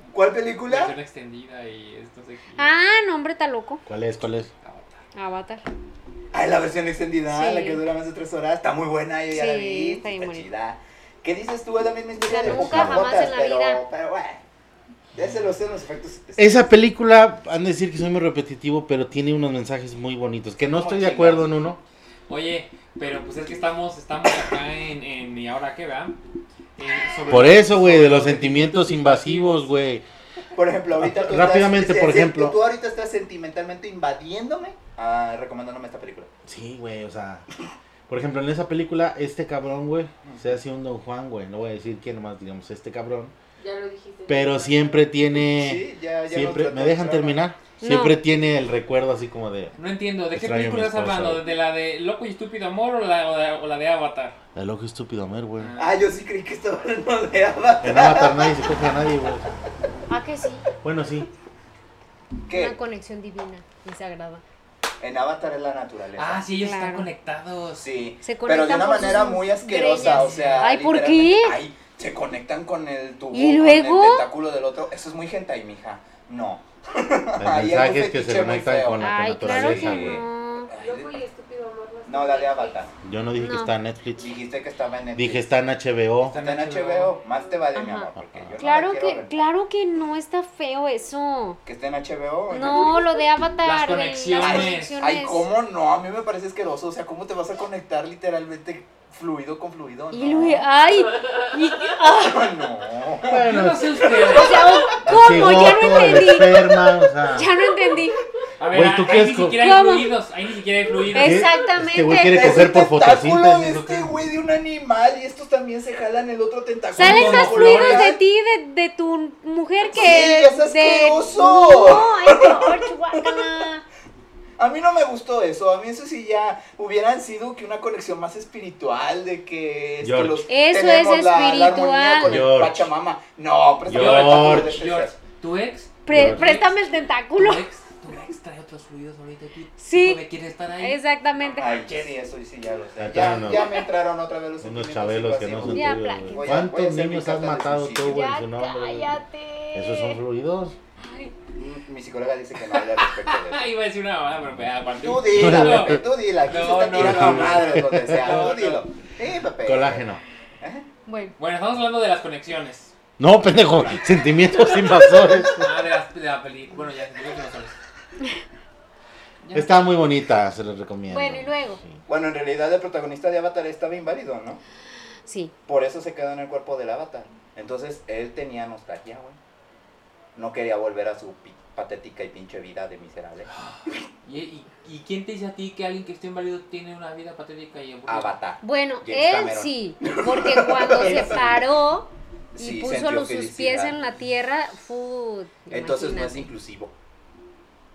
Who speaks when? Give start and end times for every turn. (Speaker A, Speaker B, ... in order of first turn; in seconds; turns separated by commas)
Speaker A: 0.1-0.9, Speaker B: 0.7-2.7, Speaker C: 2.6-3.8, Speaker D: 3.9-4.5, Speaker B: 4.6-5.0, Speaker C: 5.2-5.7, Speaker A: 6.3-14.4, Speaker C: 7.3-7.8, Speaker C: 9.3-10.5, Speaker C: 12.3-13.8, Speaker D: 12.3-13.1, Speaker A: 15.2-16.8, Speaker D: 16.4-21.8, Speaker A: 20.7-21.5, Speaker B: 22.3-26.2, Speaker B: 26.8-29.7, Speaker D: 27.3-30.1, Speaker A: 30.6-36.3, Speaker D: 31.0-32.6, Speaker D: 36.5-37.5, Speaker D: 38.1-43.3, Speaker A: 40.3-40.5, Speaker E: 43.6-45.0, Speaker D: 44.3-49.8, Speaker A: 45.3-47.4, Speaker C: 47.8-48.2, Speaker B: 49.8-54.4, Speaker D: 50.3-51.4, Speaker D: 54.5-55.7, Speaker B: 55.6-56.0, Speaker A: 55.8-58.5, Speaker D: 57.8-59.5, Speaker C: 60.1-60.7, Speaker D: 60.8-61.3, Speaker A: 62.5-62.8, Speaker C: 62.5-64.4, Speaker A: 65.0-66.5, Speaker B: 66.2-67.9, Speaker C: 66.6-67.1, Speaker A: 67.8-81.2, Speaker C: 68.2-71.6, Speaker B: 69.9-70.7, Speaker C: 73.3-74.3, Speaker D: 77.4-80.2, Speaker C: 79.0-80.7, Speaker E: 80.7-82.9, Speaker A: 82.1-82.9, Speaker D: 83.0-84.4, Speaker C: 83.4-83.8, Speaker A: 84.2-85.5, Speaker D: 85.1-86.4, Speaker B: 86.2-87.2, Speaker A: 86.3-89.4, Speaker E: 87.3-87.8, Speaker C: 87.8-91.6, Speaker D: 88.2-88.5, Speaker A: 91.7-93.1, Speaker C: 92.5-95.5, Speaker B: 93.6-94.9, Speaker A: 94.4-100.7, Speaker C: 100.1-102.6, Speaker A: 102.0-104.7, Speaker D: 103.2-104.1, Speaker B: 103.3-104.9, Speaker C: 104.3-108.2, Speaker D: 105.0-107.5, Speaker B: 108.6-111.5, Speaker D: 108.7-109.6, Speaker C: 109.5-110.1, Speaker D: 111.1-114.1, Speaker C: 111.1-112.7, Speaker A: 112.1-118.2, Speaker B: 117.0-118.1, Speaker C: 117.0-123.8, Speaker A: 119.9-123.5, Speaker A: 124.6-135.2, Speaker D: 130.0-130.5, Speaker C: 130.5-132.4, Speaker D: 132.2-132.9, Speaker D: 133.9-134.8, Speaker B: 133.9-136.7, Speaker C: 136.1-137.7, Speaker D: 136.1-136.6, Speaker B: 137.3-142.2, Speaker C: 139.8-140.2, Speaker C: 140.8-141.8, Speaker A: 141.6-148.2, Speaker D: 143.0-143.8, Speaker D: 144.6-149.2, Speaker C: 145.7-146.7, Speaker C: 148.1-150.2, Speaker D: 149.7-150.8, Speaker C: 151.0-151.3, Speaker A: 151.6-153.7, Speaker B: 152.7-158.9, Speaker A: 154.9-160.1, Speaker D: 155.3-156.1, Speaker D: 156.8-158.5, Speaker D: 159.6-160.2, Speaker A: 160.6-160.9, Speaker C: 161.1-161.3, Speaker B: 161.4-162.9, Speaker D: 163.2-165.8, Speaker B: 164.9-167.8, Speaker B: 169.4-169.9, Speaker D: 169.5-172.0, Speaker C: 171.1-171.8, Speaker A: 172.1-174.6, Speaker C: 175.3-175.5, Speaker A: 175.7-179.4, Speaker A: 180.3-183.5, Speaker B: 183.6-188.3, Speaker A: 188.1-191.6, Speaker C: 188.6-196.5, Speaker A: 192.5-194.0, Speaker A: 195.7-196.9